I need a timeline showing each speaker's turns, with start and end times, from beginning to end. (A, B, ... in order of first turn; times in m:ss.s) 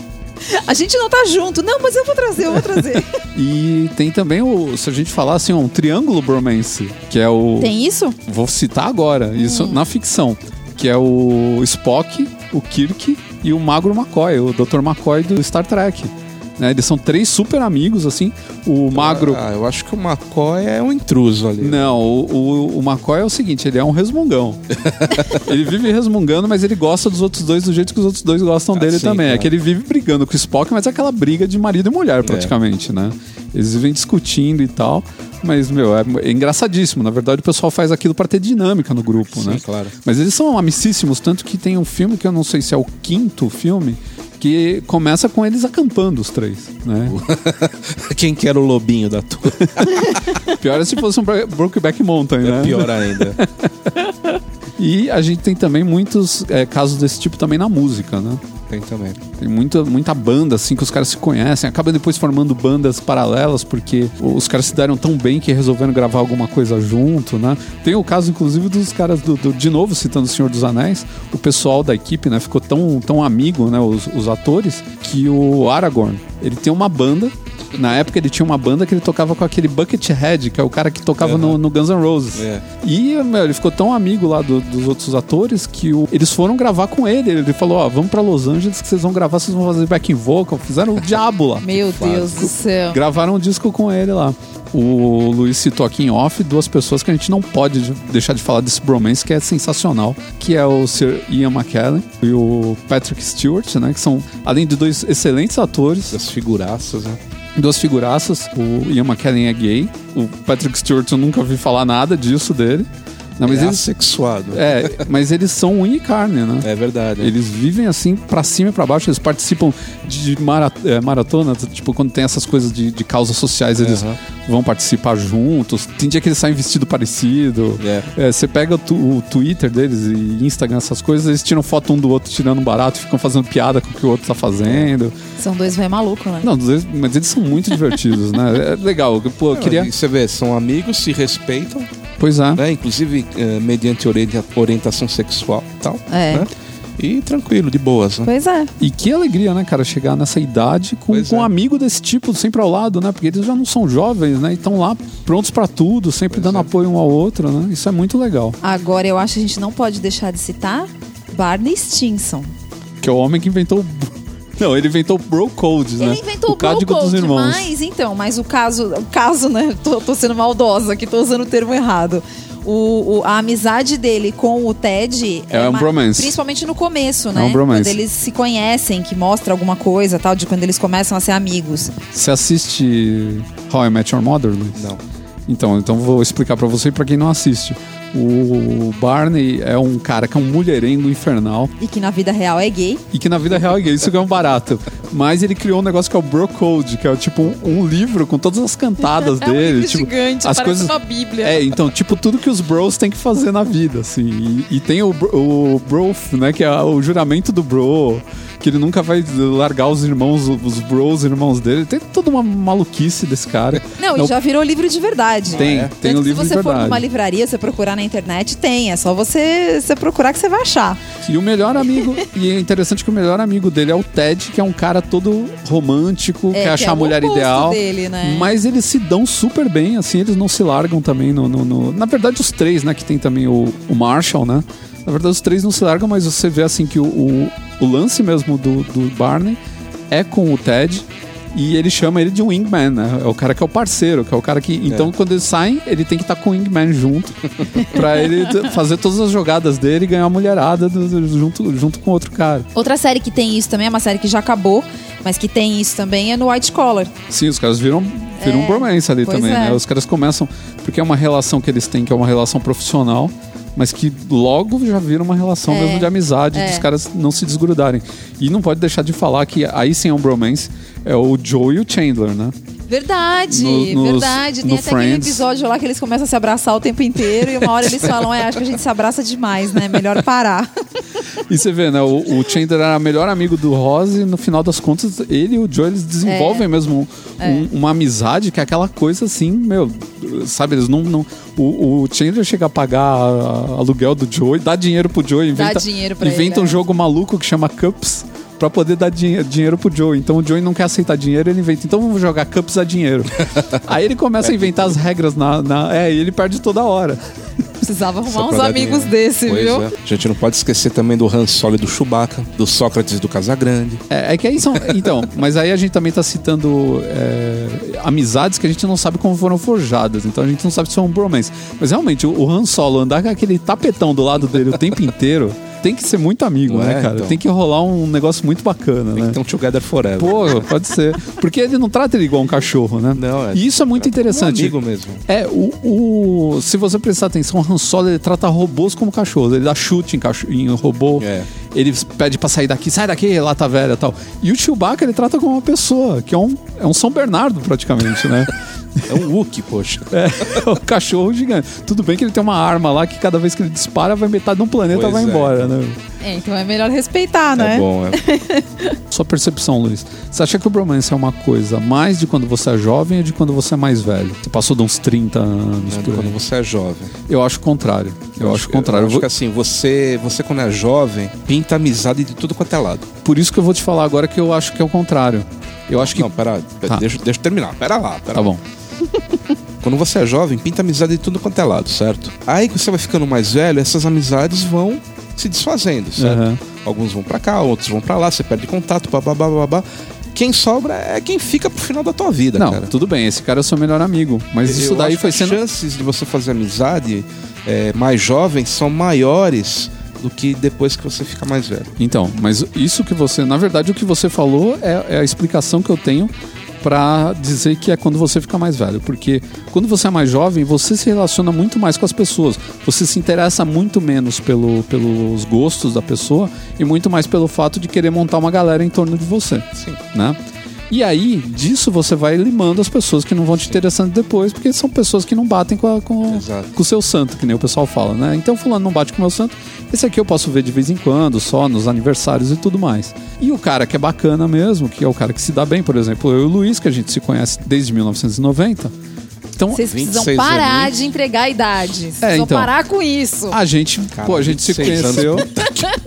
0:00.4-0:03.2 A
0:02.7-0:07.7 B
0:07.6-0:08.2 A
0:08.2-0:19.4 B
0:09.4-0:09.8 A
0:18.9-0:21.8 C
0:21.6-0:24.6 B
0:24.8-0:25.4 C
0:25.3-0:47.2 B
0:28.7-0:29.5 C
0:32.2-0:32.5 C
0:39.3-0:39.9 C
0:47.1-0:50.2 C
0:50.5-0:54.1 B
0:52.4-0:53.4 C
0:54.8-0:58.4 B
0:58.7-0:59.2 C
0:59.4-1:31.7 B
1:21.2-1:21.6 C
1:22.3-1:22.6 C
1:31.6-1:33.0 A
1:32.0-1:32.4 C
1:32.3-1:46.2 B
1:46.1-1:47.2 C
1:47.6-1:52.9 B
1:53.4-1:53.8 B
1:53.4-1:55.0 C
1:54.5-1:56.7 B
1:56.6-1:57.3 C
1:57.2-2:15.1 B
2:03.8-2:04.2 C
2:07.8-2:08.1 C
2:14.6-2:14.9 C
2:15.4-2:16.5 A
2:16.4-2:19.9 B
2:19.5-2:21.9 C
2:22.2-2:22.6 B
2:22.6-2:28.3 C
2:26.1-2:26.5 A
2:28.2-2:28.7 A
2:28.8-2:38.6 B
2:31.1-2:31.5 C
2:36.3-2:36.7 C
2:38.6-2:42.5 A
2:43.0-2:47.6 B
2:46.0-3:02.0 A
2:55.5-2:56.3 B
2:57.3-2:58.0 B
3:02.1-3:04.8 B
3:04.7-3:05.0 C
3:05.5-3:11.7 B
3:11.8-3:13.0 A
3:13.1-3:34.3 B
3:19.1-3:21.6 A
3:34.0-3:41.0 A
3:35.5-3:35.9 C
3:35.6-3:37.0 B
3:41.2-3:59.6 B
3:46.5-3:48.5 A
4:00.1-4:12.7 B
4:04.8-4:05.1 C
4:12.7-4:17.1 A
4:17.3-4:32.5 B
4:18.4-4:19.8 A
4:25.7-4:26.8 A
4:32.9-4:40.7 A
4:33.5-4:35.4 B
4:41.5-5:07.2 B
4:46.2-4:46.6 A
4:47.4-4:47.6 A
4:55.5-4:56.8 A
5:07.8-5:09.8 A
5:08.2-5:14.0 C
5:14.1-5:29.4 B
5:26.7-5:27.4 C
5:29.1-5:30.6 C
5:30.2-5:34.8 B
5:33.1-5:35.2 C
5:35.3-5:49.2 B
5:41.2-5:41.5 C
5:49.1-5:50.6 C
5:50.1-5:56.0 B
5:54.9-5:55.7 C
5:56.2-5:59.0 A
5:57.6-5:58.2 C
5:59.1-6:06.4 B
6:05.8-6:07.1 C
6:07.3-6:09.3 B
6:08.4-6:13.1 C
6:13.2-6:16.3 B
6:16.0-6:18.5 C
6:18.3-6:18.6 B
6:19.8-6:32.9 C
6:26.2-6:26.6 B
6:32.6-6:35.6 B
6:34.6-6:41.9 C
6:42.0-7:00.4 B
7:00.9-7:18.9 B
7:06.3-7:06.7 C
7:19.6-7:19.8 B
7:19.7-7:23.6 A
7:19.7-7:20.9 C
7:22.2-7:22.7 B
7:23.5-7:25.5 B
7:24.1-7:25.8 C